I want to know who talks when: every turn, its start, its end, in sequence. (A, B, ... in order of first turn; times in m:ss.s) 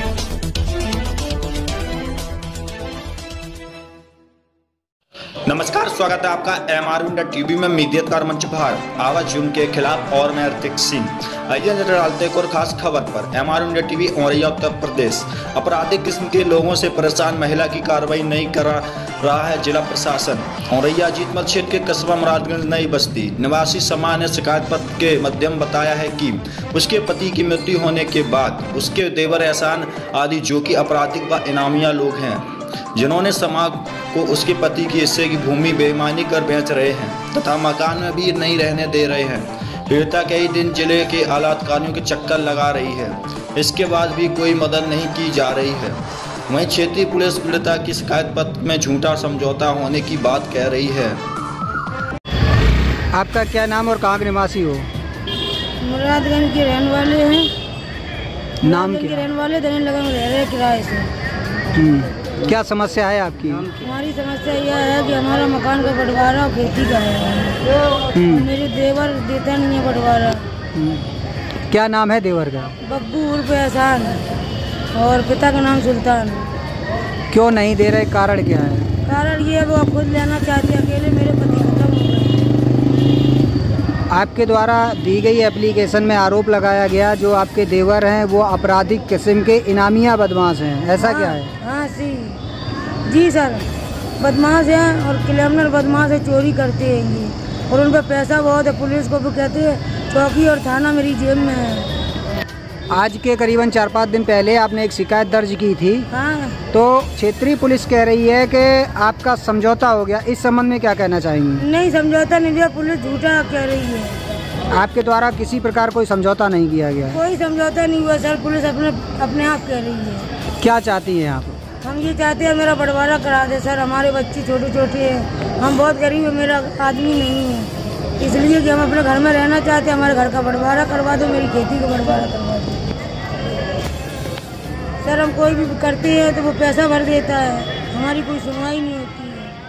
0:05.5-0:51.2 A
0:53.1-0:54.9 B
0:55.8-0:57.5 C
0:58.6-1:01.1 C
0:58.6-0:59.3 B
1:01.7-1:03.8 B
1:03.8-1:07.7 C
1:08.1-1:08.5 B
1:08.2-1:10.5 C
1:10.7-1:11.0 B
1:11.7-1:12.7 B
1:12.8-1:14.3 C
1:14.9-1:16.5 C
1:17.3-1:18.9 B
1:19.0-1:22.5 C
1:24.1-1:31.5 B
1:31.0-1:32.4 C
1:33.0-1:33.7 C
1:34.2-1:41.9 C
1:42.9-1:46.1 B
1:46.1-1:46.6 C
1:46.7-1:51.6 B
1:51.6-1:54.2 C
1:54.7-1:57.2 B
1:57.1-2:00.3 C
2:00.6-2:01.6 B
2:01.8-2:12.8 C
2:15.0-2:19.6 C